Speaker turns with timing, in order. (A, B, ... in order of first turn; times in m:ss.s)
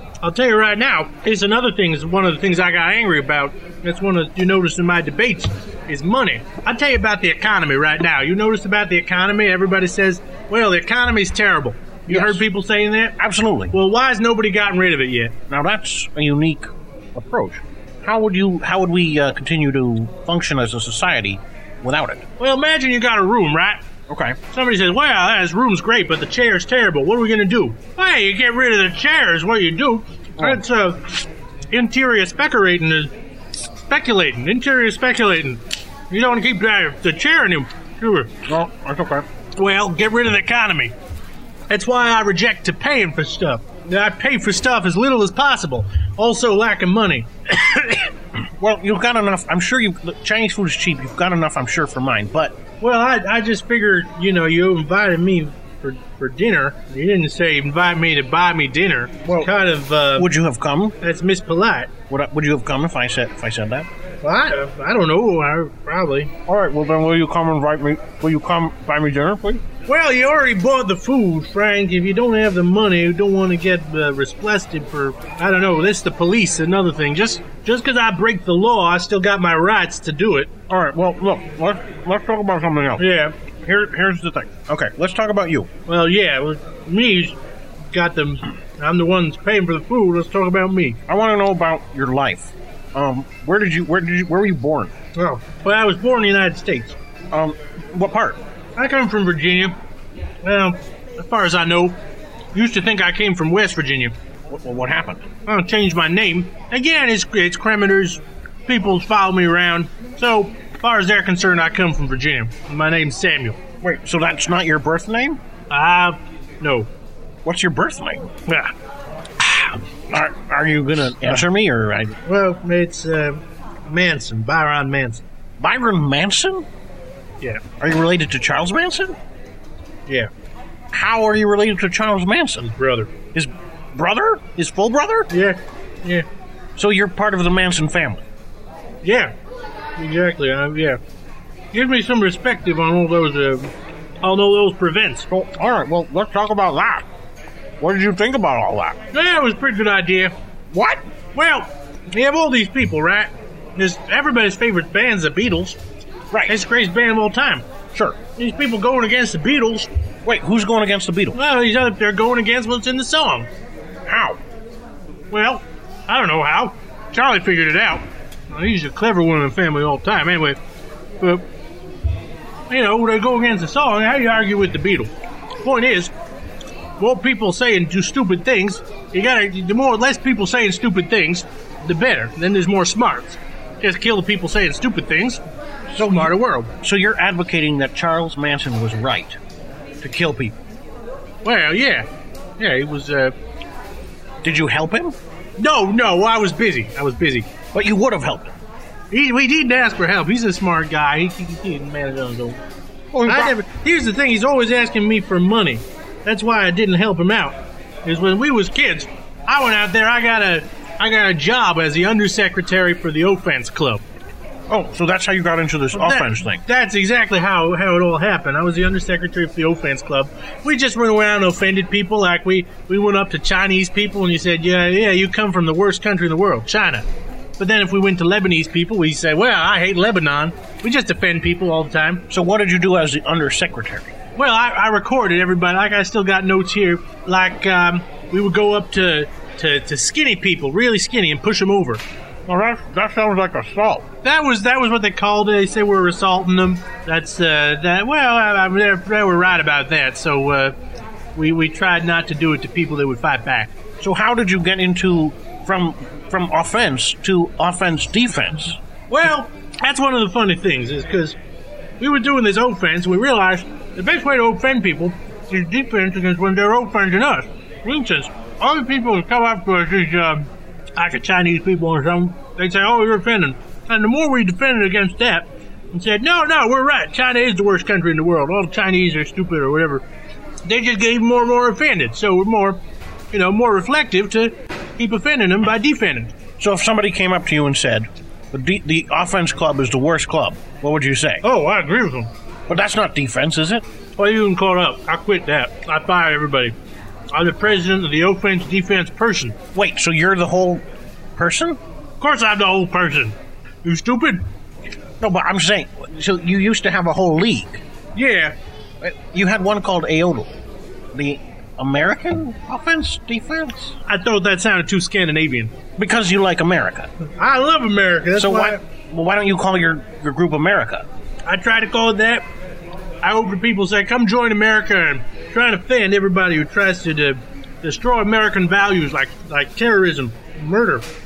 0:00.2-0:13.2 A
0:12.1-0:12.4 B
0:13.2-0:13.7 B
0:13.7-0:15.4 A
0:15.5-0:22.2 B
0:22.4-0:23.8 A
0:24.1-0:24.4 B
0:24.4-0:33.1 A
0:33.9-0:38.3 A
0:38.5-0:39.2 B
0:39.6-0:40.9 A
0:41.7-0:48.1 A
0:48.6-0:52.5 B
0:52.8-1:00.4 A
1:00.2-1:01.0 B
1:01.0-1:01.9 A
1:02.1-1:03.9 B
1:04.2-1:06.3 A
1:06.5-1:09.6 B
1:09.9-1:20.5 A
1:20.7-1:23.1 B
1:23.0-1:23.4 A
1:23.6-1:25.7 B
1:25.9-1:27.4 A
1:27.9-1:31.0 A
1:31.1-1:34.9 B
1:35.2-1:37.0 A
1:37.3-1:38.4 B
1:38.8-1:39.8 A
1:40.4-1:42.0 A
1:42.5-1:44.1 A
1:44.5-1:45.2 B
1:45.5-1:53.6 A
1:53.8-1:55.4 B
1:55.7-1:56.9 A
1:57.4-1:58.3 B
2:00.1-2:02.2 B
2:02.3-2:05.2 A
2:05.6-2:06.7 B
2:07.8-2:09.2 B
2:10.9-2:12.7 B
2:12.6-2:13.1 A
2:13.3-2:15.3 B
2:15.3-2:16.3 A
2:16.8-2:18.2 B
2:19.0-2:19.3 A
2:20.0-2:21.0 A
2:21.7-2:25.3 A
2:25.3-2:27.0 B
2:27.8-2:29.0 B
2:29.1-2:30.3 A
2:30.7-2:31.0 B
2:31.3-2:35.8 A
2:36.3-2:36.6 B
2:36.5-2:37.6 A
2:38.2-2:39.9 A
2:40.2-2:41.4 B
2:41.3-2:43.5 A
2:44.1-2:44.4 B
2:45.3-2:50.6 A
2:52.7-2:55.1 A
2:55.6-2:56.1 A
2:57.0-3:05.4 A
3:05.9-3:06.3 B
3:06.0-3:06.7 A
3:06.8-3:09.4 B
3:10.0-3:10.6 B
3:11.4-3:12.1 A
3:12.6-3:13.3 A
3:14.4-3:15.2 B
3:15.6-3:17.5 A
3:17.7-3:18.6 B
3:19.1-3:22.6 A
3:23.1-3:23.6 B
3:23.3-3:34.0 A
3:34.7-3:36.6 B
3:35.9-3:47.0 A
3:47.6-3:52.3 A
3:52.3-3:54.1 B
3:54.4-4:02.0 A
4:02.5-4:04.0 B
4:04.2-4:10.8 A
4:11.4-4:13.7 A
4:14.0-4:18.8 B
4:19.1-4:21.4 A
4:22.0-4:40.0 A
4:40.7-4:42.8 A
4:43.3-4:46.3 A
4:46.6-4:51.4 B
4:51.4-4:52.3 A
4:52.7-4:53.8 B
4:54.2-4:56.8 A
4:57.3-4:59.6 A
4:59.8-5:00.8 B
5:01.4-5:01.8 B
5:02.2-5:04.4 A
5:05.2-5:07.8 B
5:08.2-5:08.6 A
5:09.0-5:10.5 B
5:11.1-5:13.9 B
5:14.1-5:15.7 A
5:16.0-5:17.1 B
5:17.4-5:18.8 A
5:18.4-5:21.1 B
5:21.5-5:22.4 A
5:23.2-5:31.1 A